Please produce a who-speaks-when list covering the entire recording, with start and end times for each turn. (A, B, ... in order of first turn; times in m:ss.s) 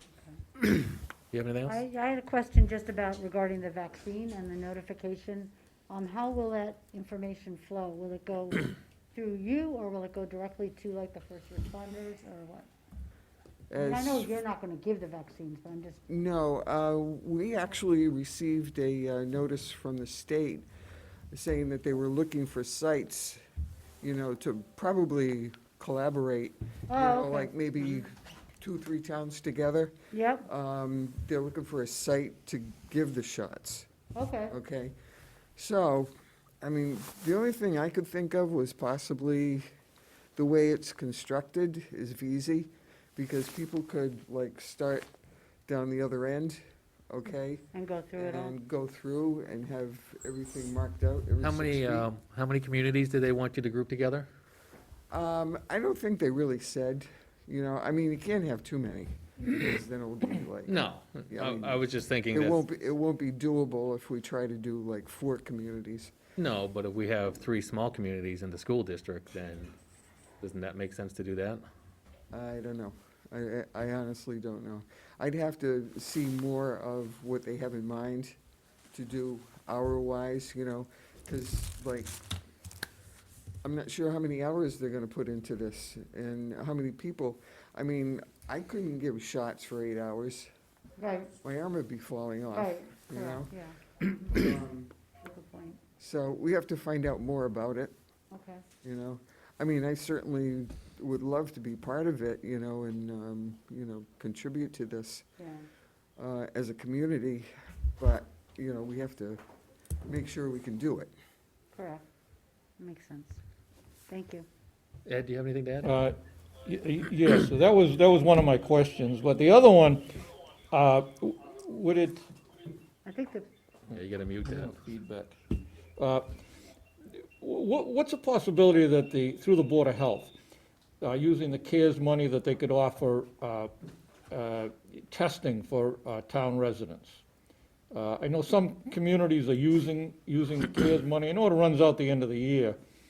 0:01.3-0:01.8 A
0:01.7-0:12.7 B
0:13.7-0:14.3 C
0:13.7-0:16.0 B
0:16.1-0:20.7 C
0:21.3-0:23.4 C
0:24.0-0:33.9 C
0:26.9-0:28.0 B
0:30.1-0:30.5 B
0:34.2-0:34.6 B
0:34.5-0:35.0 C
0:35.6-0:39.7 C
0:40.4-0:45.1 C
0:45.7-0:52.1 C
0:47.7-0:48.6 B
0:51.4-0:54.3 A
0:55.1-1:00.8 C
1:00.7-1:02.6 A
1:01.3-1:06.2 C
1:06.4-1:09.7 A
1:10.4-1:11.6 A
1:12.3-1:18.4 C
1:18.9-1:22.1 C
1:23.6-1:30.5 C
1:31.0-1:31.3 B
1:31.4-1:33.5 C
1:32.5-1:34.5 B
1:34.3-1:34.9 C
1:35.2-1:35.8 B
1:36.0-1:38.0 C
1:38.3-1:38.6 B
1:38.8-1:45.2 C
1:45.4-1:45.7 B
1:46.2-1:49.4 C
1:50.1-1:51.1 C
1:51.8-1:52.0 B
1:52.8-1:53.4 B
1:54.1-1:54.5 B
1:55.1-1:55.9 A
1:55.8-2:00.0 D
2:00.7-2:02.2 D
2:03.0-2:03.5 B
2:03.9-2:04.7 A
2:04.4-2:05.3 D
2:06.0-2:06.2 D
2:07.4-2:10.3 D
2:11.0-2:13.7 D
2:14.3-2:17.2 D
2:17.9-2:22.8 D